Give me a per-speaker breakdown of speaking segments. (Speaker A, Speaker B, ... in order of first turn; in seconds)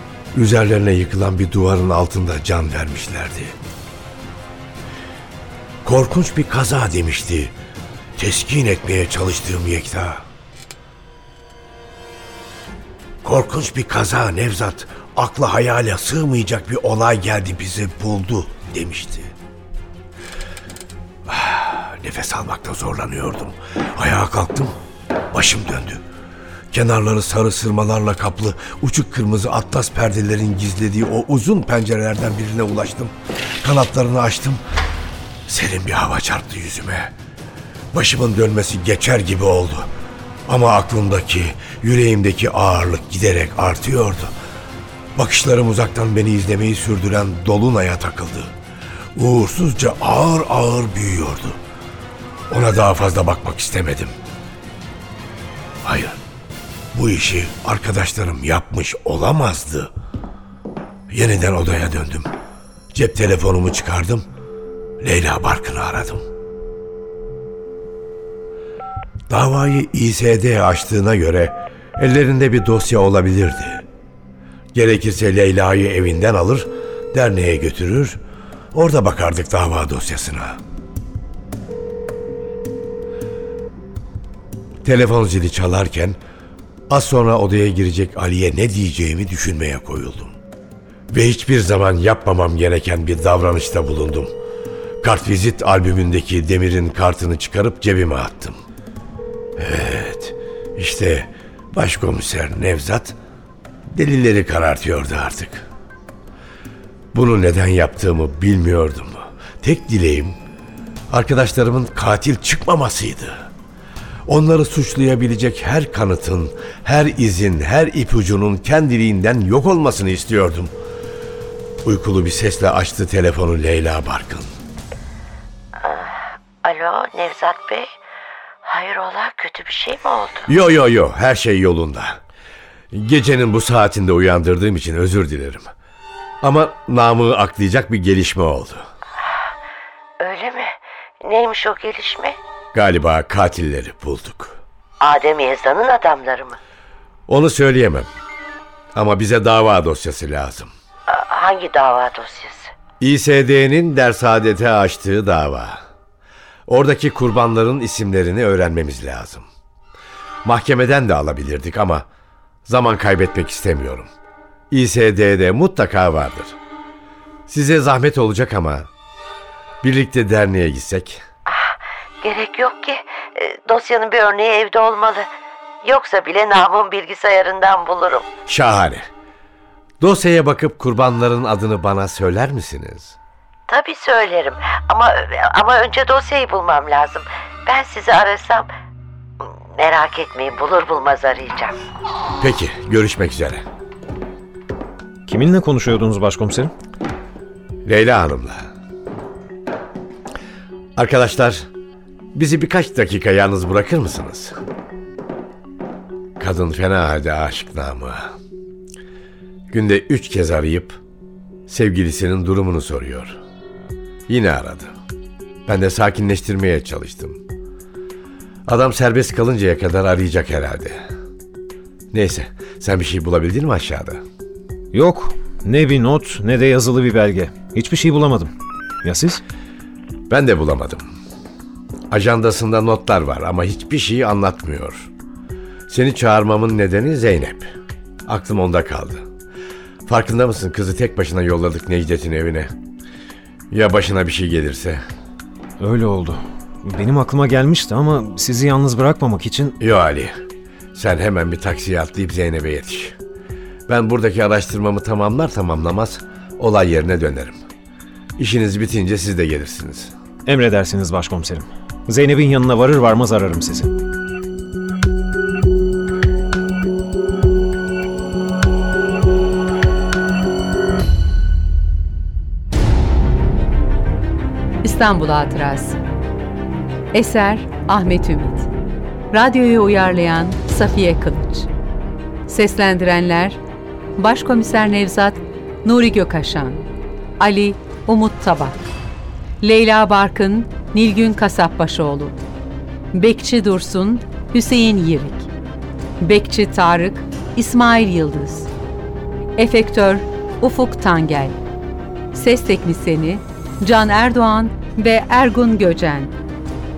Speaker A: 0.3-3.5, 5.8-7.5, 8.2-10.2, 13.2-19.3, 21.3-24.8, 25.3-26.0, 26.7-34.6, 35.5-37.1, 37.9-39.9, 40.5-44.3, 45.1-48.5, 49.1-51.6, 52.5-54.1, 55.9-56.2, 56.9-59.9, 61.1-62.3, 62.9-64.2, 65.0-66.2, 69.3-73.8, 74.7-78.2, 78.7-80.6, 84.8-86.2, 86.9-90.4, 91.1-94.3, 95.0-98.6, 99.6-103.2, 103.9-105.7, 107.1-110.4, 111.1-113.5, 114.3-120.7, 121.8-124.5, 130.5-132.2, 132.9-135.7, 136.4-138.8, 142.7-144.6, 147.3-148.1, 148.9-150.7, 153.0-155.8, 156.7-159.5, 160.4-162.1, 162.7-164.1, 164.7-166.6, 167.5-168.9, 169.8-171.2, 178.5-179.0, 180.0-183.2, 192.4-193.6, 197.8-198.7, 201.0-201.7, 202.3-204.6, 206.4-208.3, 209.7-211.0, 211.7-213.4, 214.3-214.9, 215.7-217.4, 218.7-221.0, 222.1-224.2, 230.3-231.1, 232.1-235.1, 235.9-237.7, 238.3-239.2, 240.1-242.7, 243.7-245.0, 249.8-250.3, 250.9-253.2, 253.9-257.6, 258.4-260.1
Speaker B: 125.8-127.9, 128.6-130.5, 139.2-139.5, 140.2-142.4, 145.0-146.6, 151.1-152.7, 171.5-175.3, 175.8-178.3, 183.7-188.7, 189.4-191.8
Speaker C: 195.2-196.7, 224.9-228.5, 229.0-229.4, 245.8-249.7, 260.4-263.9
Speaker D: 274.8-276.0, 277.1-278.7, 279.3-281.7, 282.5-283.6, 284.2-286.9, 287.4-288.9, 289.6-292.4, 293.1-295.5, 296.2-298.7, 299.6-301.6, 302.3-306.4